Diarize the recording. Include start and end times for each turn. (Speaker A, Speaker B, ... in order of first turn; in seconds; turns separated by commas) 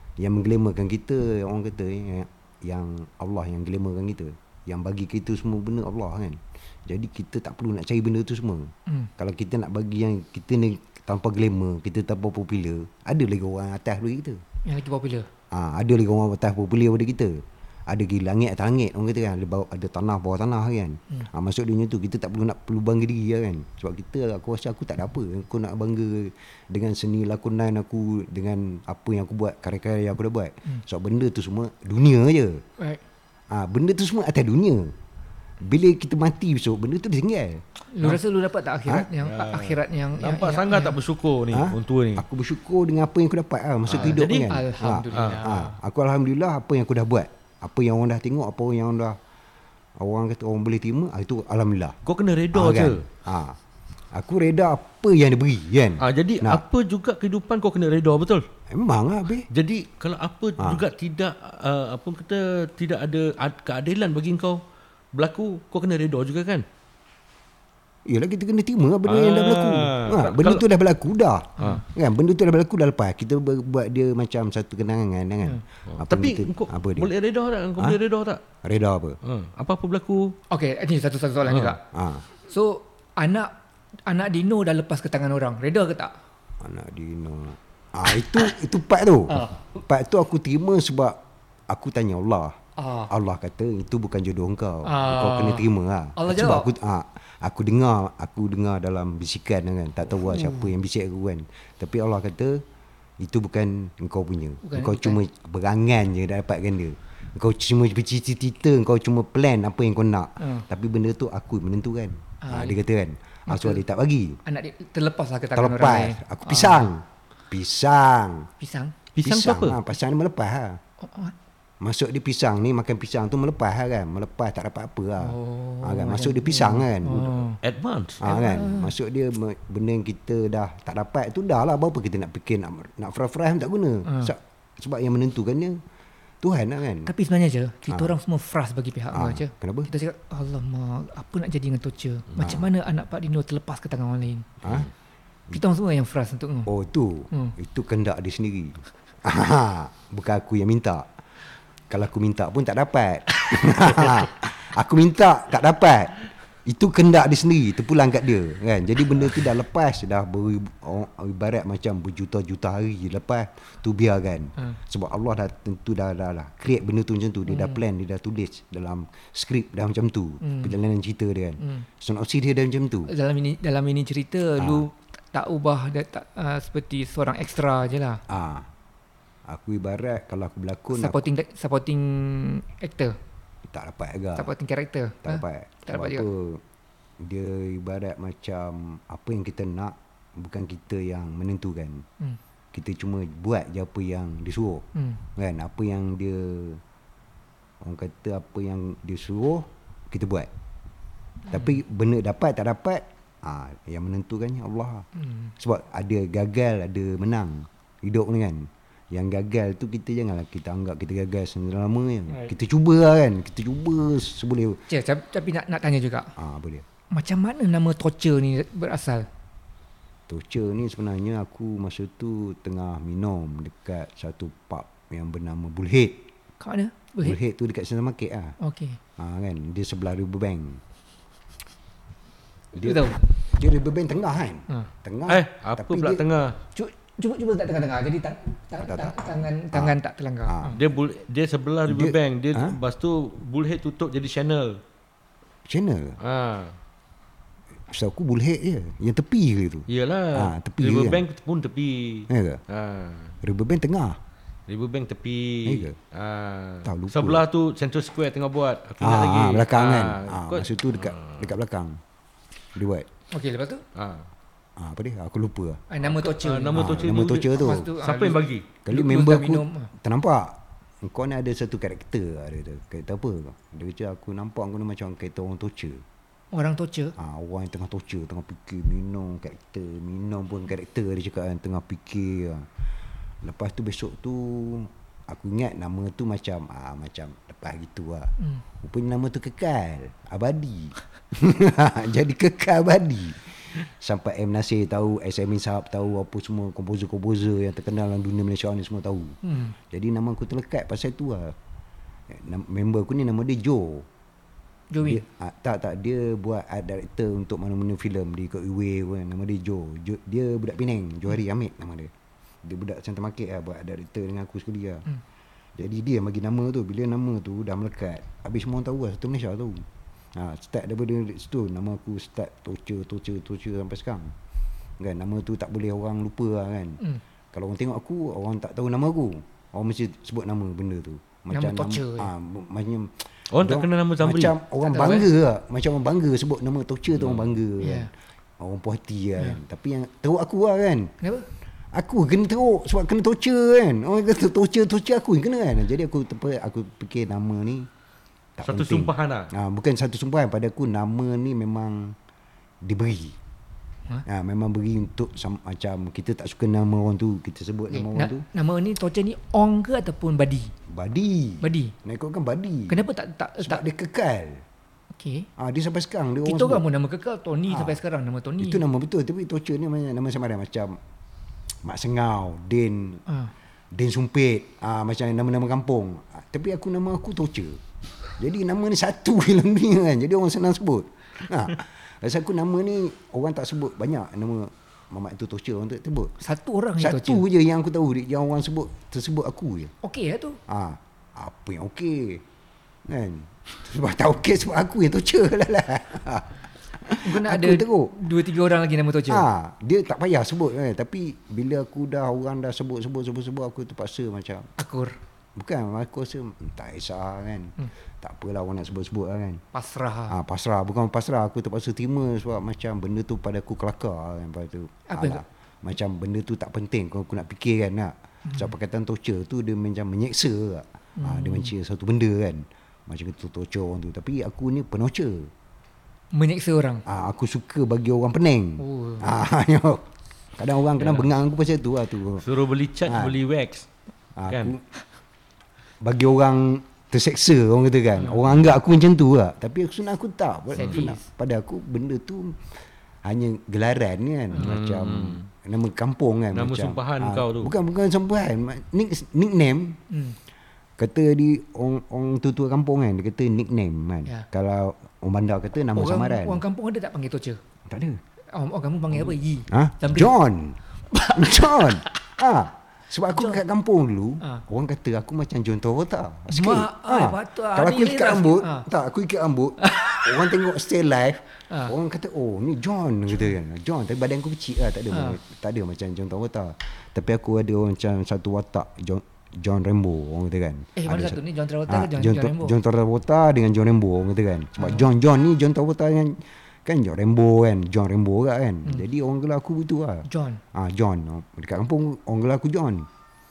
Speaker A: 0.2-14.4, Speaker B: 14.7-15.3, Speaker A: 15.5-32.6, Speaker A: 33.5-34.9, Speaker A: 35.6-37.6, Speaker B: 37.9-41.0, Speaker C: 39.2-42.2, Speaker A: 41.5-49.2, Speaker C: 43.9-44.5, Speaker B: 43.9-45.8, Speaker C: 45.1-45.4, Speaker A: 50.0-52.0, Speaker C: 52.0-53.0, Speaker A: 52.5-53.6, Speaker A: 54.1-56.6, Speaker C: 56.0-58.5, Speaker A: 58.7-59.5, Speaker C: 59.5-64.6, Speaker A: 60.6-60.8, Speaker C: 65.1-66.6, Speaker A: 68.1-77.1, Speaker C: 69.0-70.6, Speaker B: 71.6-71.8, Speaker C: 75.9-78.4, Speaker A: 78.6-79.2, Speaker C: 79.2-80.3, Speaker B: 80.5-81.8, Speaker C: 81.5-81.8, Speaker A: 81.9-82.2, Speaker B: 82.4-83.5, Speaker B: 84.1-86.1, Speaker A: 86.6-92.6, Speaker B: 89.3-89.8, Speaker B: 92.8-93.1, Speaker A: 93.1-102.6, Speaker B: 94.8-96.7, Speaker B: 100.2-100.7, Speaker A: 103.2-114.4, Speaker B: 104.6-105.2, Speaker B: 110.4-110.7, Speaker B: 112.4-112.8, Speaker B: 113.5-113.8, Speaker B: 114.5-116.9, Speaker A: 115.5-118.5, Speaker B: 118.6-119.0, Speaker C: 119.1-119.8, Speaker A: 119.2-120.8, Speaker B: 121.0-121.3, Speaker A: 121.8-127.4, Speaker B: 125.2-127.6, Speaker C: 127.6-128.2, Speaker A: 128.2-135.8, Speaker B: 128.2-128.9, Speaker B: 134.1-134.3, Speaker A: 136.4-137.1, Speaker B: 137.1-144.5, Speaker A: 139.1-139.9, Speaker A: 142.4-142.7, Speaker A: 144.6-144.9, Speaker B: 145.5-146.7, Speaker A: 146.7-151.1, Speaker A: 151.9-173.1, Speaker B: 167.5-167.8, Speaker B: 170.4-170.8, Speaker B: 171.6-171.9, Speaker B: 173.1-178.2, Speaker A: 174.6-174.9, Speaker A: 178.3-178.7, Speaker A: 179.5-181.3, Speaker B: 180.9-183.2, Speaker A: 183.7-184.5, Speaker B: 184.4-186.3, Speaker A: 185.2-186.6, Speaker A: 187.2-192.1, Speaker A: 192.7-194.8, Speaker B: 194.9-195.2, Speaker A: 195.4-196.8, Speaker A: 197.8-200.5, Speaker A: 201.5-205.1, Speaker B: 205.2-205.5, Speaker A: 205.6-214.8, Speaker B: 214.9-216.3, Speaker A: 216.4-216.8, Speaker B: 217.1-219.3, Speaker A: 220.3-226.3, Speaker B: 226.6-227.4, Speaker A: 227.2-228.6, Speaker B: 228.6-229.0, Speaker A: 229.2-230.8, Speaker A: 232.7-236.2, Speaker B: 232.8-233.2, Speaker C: 235.3-236.6, Speaker B: 236.8-240.8, Speaker A: 238.8-240.8, Speaker C: 240.8-244.8, Speaker A: 241.9-242.8, Speaker A: 245.7-246.2, Speaker C: 246.2-246.8, Speaker A: 247.9-251.2, Speaker C: 249.9-253.4, Speaker A: 252.3-252.6, Speaker A: 253.4-254.2, Speaker C: 254.7-261.5, Speaker A: 255.6-256.0, Speaker A: 256.8-257.4, Speaker A: 259.0-262.0, Speaker A: 262.8-263.1, Speaker B: 263.3-263.8, Speaker C: 263.9-264.3, Speaker A: 264.8-265.8, Speaker B: 265.9-269.9, Speaker C: 266.0-268.7, Speaker A: 266.7-267.9, Speaker A: 268.9-276.0, Speaker B: 276.5-277.1, Speaker A: 277.2-282.7, Speaker A: 283.4-301.6, Speaker B: 299.4-299.8, Speaker A: 302.3-304.1, Speaker B: 304.9-305.2, Speaker A: 305.0-312.1, Speaker A: 312.6-315.1, Speaker A: 315.8-324.4, Speaker A: 325.0-327.0, Speaker A: 327.5-341.1, Speaker B: 331.5-332.3, Speaker C: 333.5-334.6, Speaker B: 334.8-335.3, Speaker C: 337.2-337.6, Speaker B: 337.8-338.1, Speaker B: 341.2-341.5, Speaker A: 341.9-347.9, Speaker A: 348.6-352.2, Speaker C: 348.6-349.5, Speaker A: 352.8-353.4, Speaker A: 354.3-358.5, Speaker B: 357.9-360.7, Speaker A: 360.9-363.1, Speaker B: 361.6-361.9, Speaker B: 362.9-363.9, Speaker A: 363.6-364.6, Speaker B: 365.1-365.5, Speaker A: 365.6-366.9, Speaker B: 366.4-368.8, Speaker A: 367.7-368.0, Speaker A: 368.6-371.0, Speaker A: 371.8-373.2, Speaker A: 373.9-377.8, Speaker A: 378.4-386.3, Speaker B: 386.4-387.4, Speaker A: 387.0-389.9, Speaker B: 390.0-390.6, Speaker A: 390.7-392.4, Speaker A: 393.1-398.1, Speaker B: 397.2-399.4, Speaker A: 399.3-404.7, Speaker B: 404.8-405.2, Speaker A: 405.6-409.6, Speaker B: 409.7-410.4, Speaker A: 410.3-425.5, Speaker B: 415.1-415.4, Speaker B: 421.2-421.7, Speaker B: 426.3-427.0, Speaker A: 427.1-432.5, Speaker B: 428.8-429.3, Speaker C: 431.0-431.3, Speaker C: 432.4-433.9, Speaker A: 433.1-433.4, Speaker A: 434.4-434.8, Speaker C: 434.5-434.7, Speaker A: 436.0-450.0, Speaker B: 440.8-441.2, Speaker C: 440.8-441.1, Speaker C: 444.6-445.5, Speaker C: 446.5-447.7, Speaker B: 450.1-450.4, Speaker A: 451.0-456.6, Speaker B: 455.9-457.6, Speaker A: 457.9-458.2, Speaker B: 458.5-460.4, Speaker A: 459.7-493.1, Speaker B: 461.1-462.1, Speaker B: 463.3-463.6, Speaker B: 466.5-468.9, Speaker B: 469.8-470.4, Speaker B: 471.7-471.9, Speaker B: 475.1-475.4, Speaker B: 480.9-482.8, Speaker B: 484.8-485.0, Speaker B: 490.3-490.6